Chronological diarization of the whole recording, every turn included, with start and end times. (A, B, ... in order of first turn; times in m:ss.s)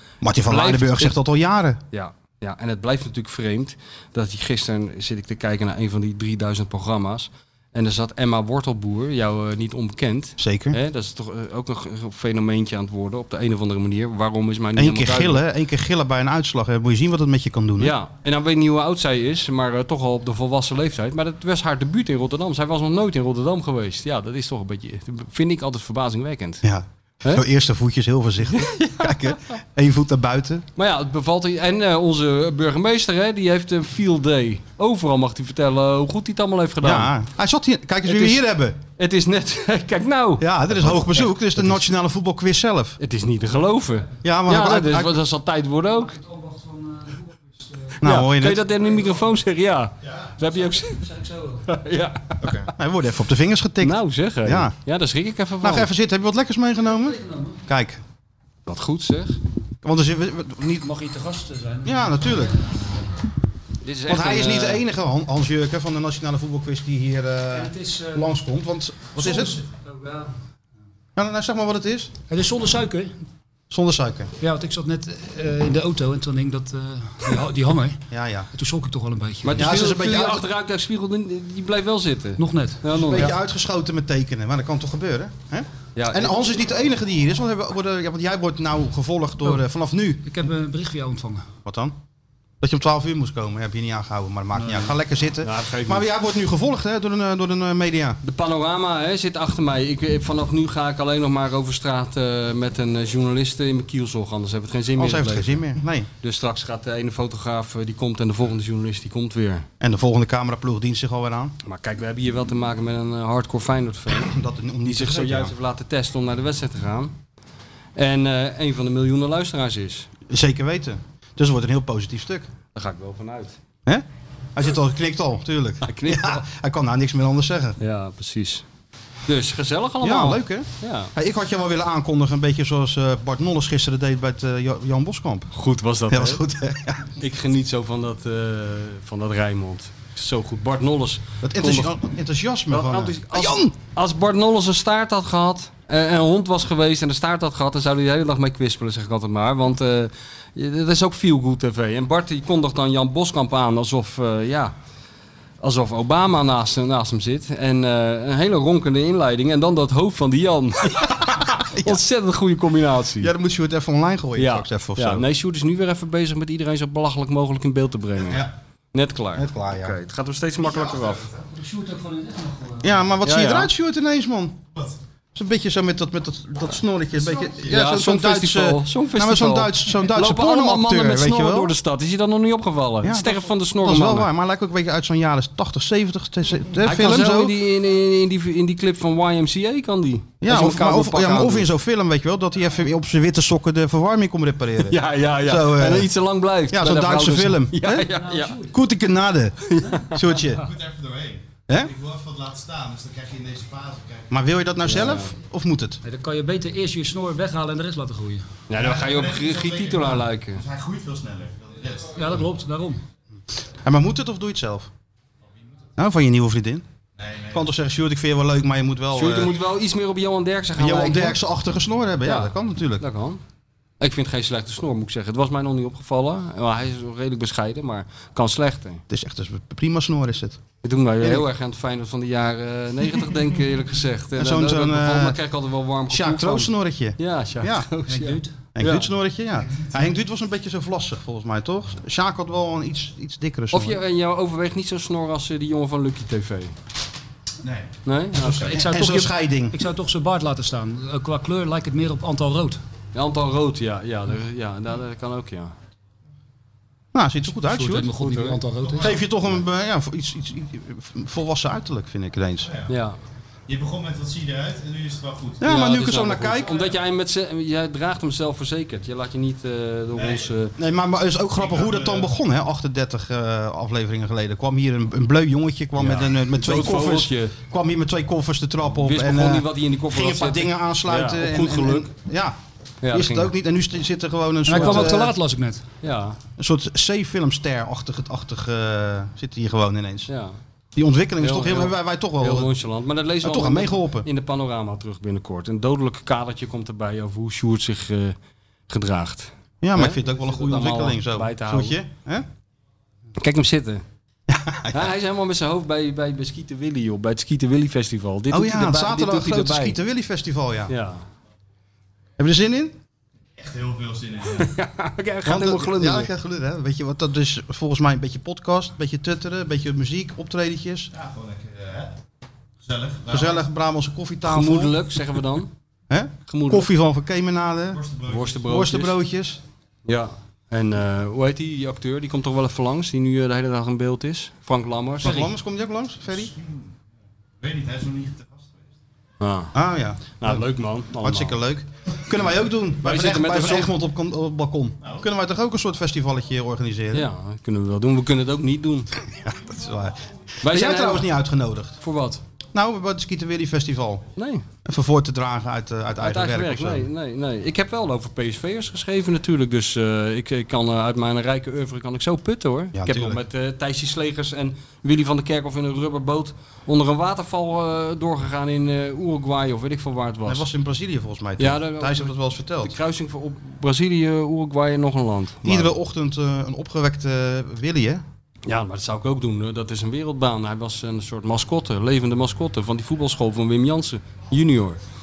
0:00.2-0:01.8 A
0:00.4-0:01.2 B
0:01.9-0:15.4 B
0:10.4-0:10.8 A
0:14.8-0:18.0 A
0:17.8-0:26.6 B
0:26.6-0:30.7 A
0:28.5-0:29.4 B
0:30.8-0:37.1 B
0:36.8-0:38.8 A
0:38.0-0:41.8 B
0:40.4-0:43.0 A
0:43.0-0:46.1 B
0:44.2-0:45.2 A
0:46.0-0:48.0 C
0:48.0-0:48.6 A
0:48.0-0:51.1 B
0:50.8-0:51.6 C
0:51.6-0:52.6 B
0:52.4-0:54.8 A
0:53.8-0:55.9 B
0:55.6-0:58.0 A
0:58.7-0:59.4 B
0:59.8-1:00.9 A
1:00.8-1:02.5 C
1:01.8-1:02.6 A
1:03.8-1:04.8 B
1:04.1-1:09.6 A
1:07.5-1:08.3 C
1:09.2-1:10.3 C
1:11.2-1:12.1 A
1:12.3-1:13.2 C
1:13.7-1:14.3 A
1:14.4-1:18.0 C
1:18.1-1:18.5 A
1:18.5-1:19.6 C
1:19.4-1:23.3 B
1:19.6-1:20.4 A
1:22.4-1:23.3 C
1:22.9-1:30.2 A
1:26.0-1:26.4 B
1:30.2-1:31.5 C
1:31.7-1:32.0 A
1:32.6-1:38.2 A
1:34.6-1:34.9 C
1:35.4-1:36.1 B
1:38.2-1:45.6 B
1:45.0-1:46.1 A
1:46.2-1:49.7 B
1:49.8-1:51.6 A
1:51.6-1:57.1 B
1:54.2-1:55.5 A
1:58.0-2:00.1 B
2:00.3-2:02.5 A
2:02.7-2:03.6 B
2:03.9-2:07.8 A
2:05.8-2:06.5 B
2:07.8-2:08.6 B
2:09.3-2:11.1 B
2:10.0-2:15.5 A
2:15.5-2:16.4 B
2:16.1-2:17.1 A
2:17.1-2:21.9 B
2:21.4-2:23.8 A
2:22.7-2:34.7 B
2:35.6-2:43.3 B
2:41.7-2:42.0 A
2:43.2-2:45.3 A
2:44.4-2:51.3 B
2:49.4-2:50.0 A
2:51.5-2:52.9 C
2:52.8-2:54.7 A
2:53.2-2:53.7 B
2:55.4-3:01.7 A
2:57.6-3:04.3 B
3:03.0-3:07.6 A
3:06.8-3:11.7 B
3:10.4-3:16.1 A
3:14.8-3:18.6 B
3:16.7-3:18.1 A
3:18.2-3:18.7 C
3:18.6-3:20.6 A
3:19.7-3:20.4 B
3:20.6-3:24.3 D
3:24.3-3:26.0 A
3:24.8-3:25.3 B
3:26.0-3:28.5 C
3:28.7-3:30.6 B
3:28.8-3:32.2 D
3:32.2-3:33.0 C
3:33.8-3:34.9 A
3:36.0-3:36.8 A
3:37.2-3:37.6 D
3:37.5-3:39.6 A
3:39.1-3:41.4 B
3:40.8-3:43.0 A
3:42.2-3:43.4 B
3:44.0-3:49.0 B
3:49.1-3:50.6 A
3:50.8-3:59.1 B
3:54.4-3:55.4 A
3:56.1-3:57.9 A
3:58.1-3:58.5 C
3:58.7-4:04.0 A
4:03.7-4:06.7 B
4:08.1-4:08.8 B
4:08.4-4:09.8 A
4:08.5-4:12.8 C
4:13.1-4:15.7 B
4:17.1-4:18.2 A
4:17.6-4:19.1 C
4:18.2-4:18.5 B
4:19.0-4:22.8 A
4:22.9-4:23.2 B
4:23.7-4:25.6 D
4:25.6-4:26.8 A
4:25.6-4:30.7 B
4:30.8-4:42.6 A
4:31.6-4:32.2 D
4:36.0-4:37.5 B
4:39.0-4:42.1 B
4:43.0-4:43.5 B
4:43.1-4:45.3 A
4:44.7-4:45.8 C
4:44.8-4:45.1 B
4:46.0-4:46.4 B
4:46.6-4:50.3 A
4:50.3-4:50.6 B
4:51.0-4:52.7 A
4:51.4-4:58.4 B
4:53.4-4:54.3 A
4:58.9-5:02.0 B
4:59.8-5:02.5 A
5:03.4-5:04.0 B
5:04.5-5:05.1 A
5:04.9-5:10.0 B
5:08.5-5:10.9 A
5:10.9-5:11.2 B
5:12.4-5:13.0 A
5:13.6-5:14.7 D
5:14.5-5:16.3 B
5:15.4-5:21.1 A
5:21.1-5:22.1 D
5:22.8-5:23.6 D
5:23.3-5:25.0 A
5:24.4-5:25.7 B
5:26.1-5:29.6 A
5:26.5-5:26.9 B
5:27.9-5:28.6 D
5:28.3-5:29.2 B
5:30.1-5:35.5 B
5:35.2-5:36.5 A
5:36.5-5:36.8 D
5:37.6-5:38.8 D
5:39.4-5:39.7 B
5:39.7-5:40.6 A
5:40.3-5:41.6 B
5:41.2-5:47.3 A
5:43.0-5:43.9 B
5:47.1-5:49.1 B
5:49.4-5:52.0 A
5:50.6-5:51.3 B
5:52.0-5:52.4 B
5:52.7-5:54.3 A
5:54.4-5:54.6 B
5:54.8-5:57.1 A
5:56.2-6:10.7 B
6:02.9-6:03.4 A
6:10.4-6:13.0 A
6:11.6-6:15.9 B
6:15.6-6:18.2 A
6:18.7-6:25.0 B